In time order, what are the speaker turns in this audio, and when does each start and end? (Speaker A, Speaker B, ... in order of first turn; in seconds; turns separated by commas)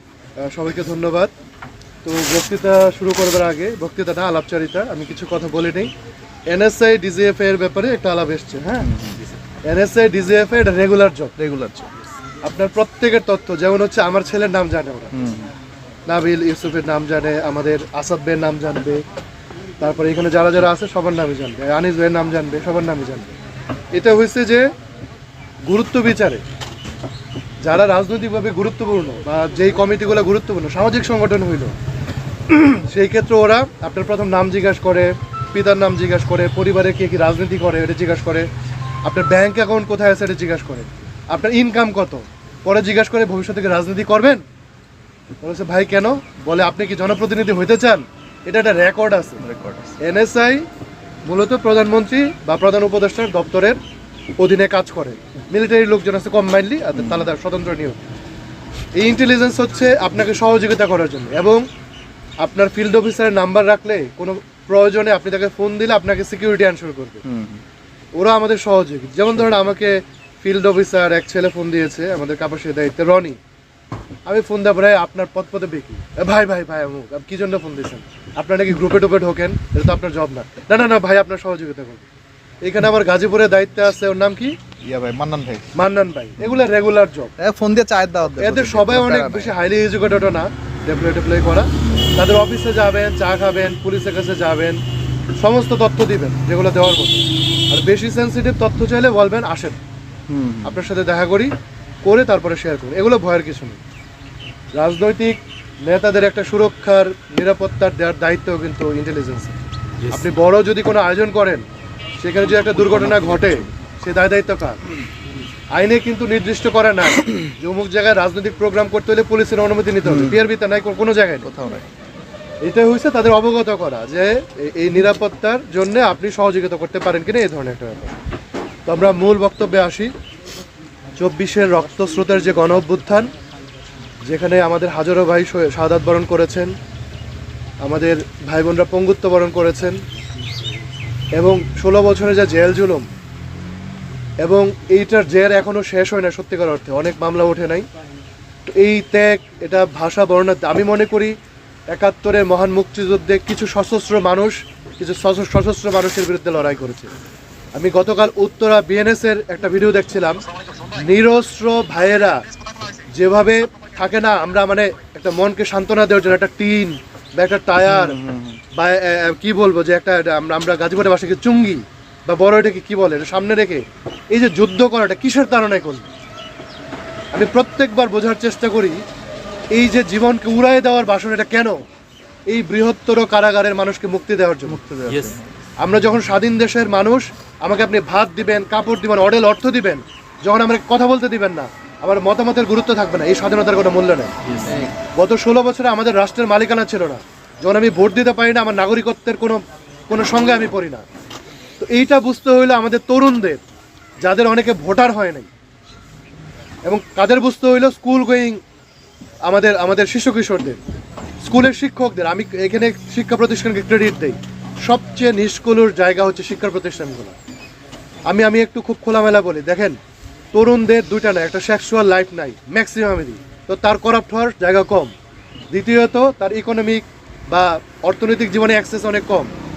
Speaker A: 0.4-1.3, Speaker A: 2.0-5.9, Speaker A: 6.5-8.9, Speaker B: 8.8-9.2, Speaker A: 9.7-11.3, Speaker B: 11.4-11.9, Speaker A: 12.4-15.1, Speaker B: 15.1-15.5, Speaker A: 16.1-19.0, Speaker A: 19.8-23.4, Speaker A: 23.9-24.7, Speaker A: 25.7-26.4, Speaker A: 27.6-31.7, Speaker A: 32.5-38.5, Speaker A: 39.1-44.4, Speaker A: 45.4-49.4, Speaker B: 49.4-50.0, Speaker A: 50.0-50.6, Speaker A: 51.3-53.8, Speaker A: 54.4-58.0, Speaker A: 59.0-61.6, Speaker A: 62.4-67.2, Speaker B: 67.3-67.6, Speaker A: 68.2-73.4, Speaker A: 74.3-82.0, Speaker A: 82.6-84.5, Speaker B: 84.8-85.7, Speaker A: 85.8-87.3, Speaker B: 87.4-89.5, Speaker A: 88.4-94.8, Speaker A: 95.4-99.8, Speaker B: 100.3-100.8, Speaker A: 100.6-101.5, Speaker A: 102.0-103.8, Speaker A: 104.8-109.6, Speaker A: 110.1-111.6, Speaker A: 112.2-114.8, Speaker A: 115.8-121.5, Speaker B: 120.0-120.4, Speaker B: 121.4-121.9, Speaker A: 122.7-128.2, Speaker A: 128.9-130.1, Speaker A: 131.2-133.3, Speaker A: 134.3-136.7, Speaker A: 137.8-140.0, Speaker A: 141.4-143.1, Speaker A: 144.4-147.9, Speaker A: 148.7-151.3, Speaker A: 151.9-157.1, Speaker A: 157.8-160.4, Speaker A: 161.0-162.4, Speaker A: 163.2-168.2, Speaker B: 167.8-168.6, Speaker A: 168.8-176.1, Speaker A: 177.3-179.0, Speaker A: 179.7-181.8, Speaker A: 182.5-184.8, Speaker B: 184.7-185.5, Speaker A: 185.8-194.3, Speaker A: 195.2-201.1, Speaker A: 201.8-203.6, Speaker A: 204.2-205.5, Speaker A: 206.8-208.6, Speaker A: 209.5-210.8, Speaker A: 211.4-217.4, Speaker A: 218.3-220.0, Speaker A: 220.5-225.1, Speaker A: 225.7-229.5